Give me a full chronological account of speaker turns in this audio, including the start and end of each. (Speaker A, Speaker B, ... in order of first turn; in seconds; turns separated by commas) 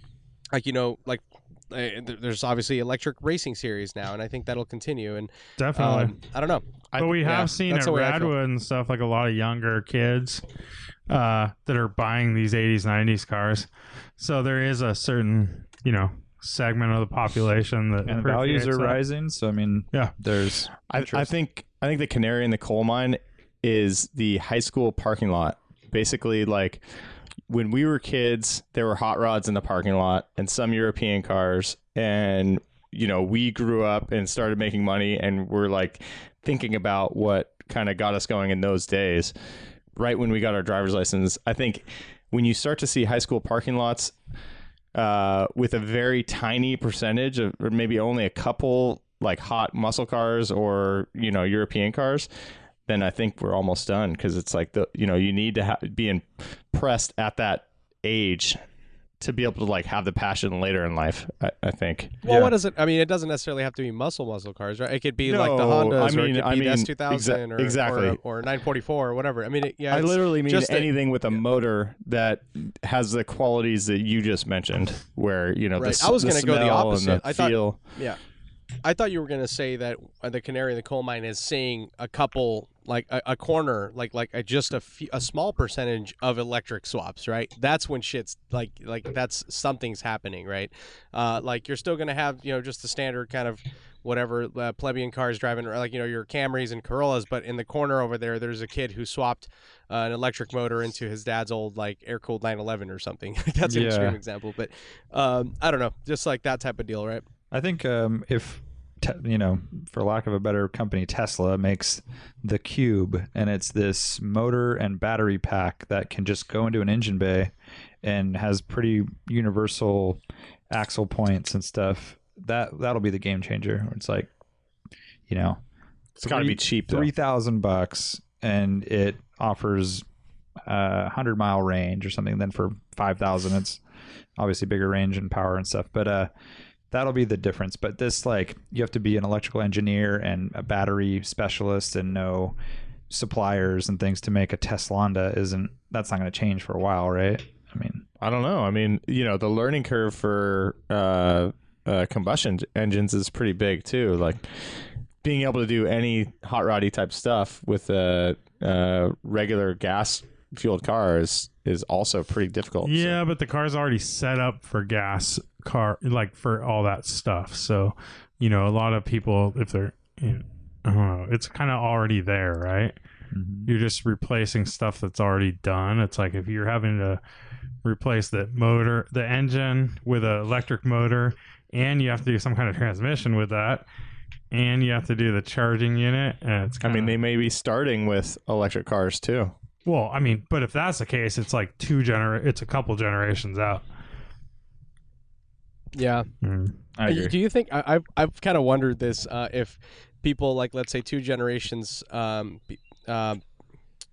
Speaker A: 0.5-6.7, Speaker B: 5.6-6.1, Speaker C: 6.9-7.5, Speaker B: 7.0-10.4, Speaker A: 7.2-8.3, Speaker B: 11.1-19.0, Speaker D: 18.1-21.3, Speaker C: 20.9-26.8, Speaker C: 27.5-39.3, Speaker C: 40.0-44.1, Speaker C: 44.9-52.3, Speaker C: 52.9-58.6, Speaker C: 59.2-62.1, Speaker A: 62.2-71.4, Speaker D: 62.2-62.5, Speaker C: 65.2-68.2, Speaker C: 69.9-77.8, Speaker A: 75.8-78.2, Speaker A: 78.8-107.2, Speaker D: 103.6-104.2, Speaker D: 107.5-117.5, Speaker D: 118.0-124.3, Speaker D: 125.3-125.6, Speaker C: 126.2-127.1, Speaker D: 126.2-130.0, Speaker D: 130.7-133.8, Speaker D: 134.4-136.3, Speaker D: 136.9-142.6, Speaker D: 143.1-148.0, Speaker C: 148.2-163.2, Speaker B: 162.8-172.9, Speaker D: 173.3-173.7, Speaker B: 173.7-177.2, Speaker B: 177.8-183.9, Speaker B: 184.5-187.2, Speaker C: 186.8-189.5, Speaker B: 189.8-193.8, Speaker A: 195.9-196.3, Speaker B: 196.4-196.7, Speaker D: 196.9-197.3, Speaker A: 197.0-203.4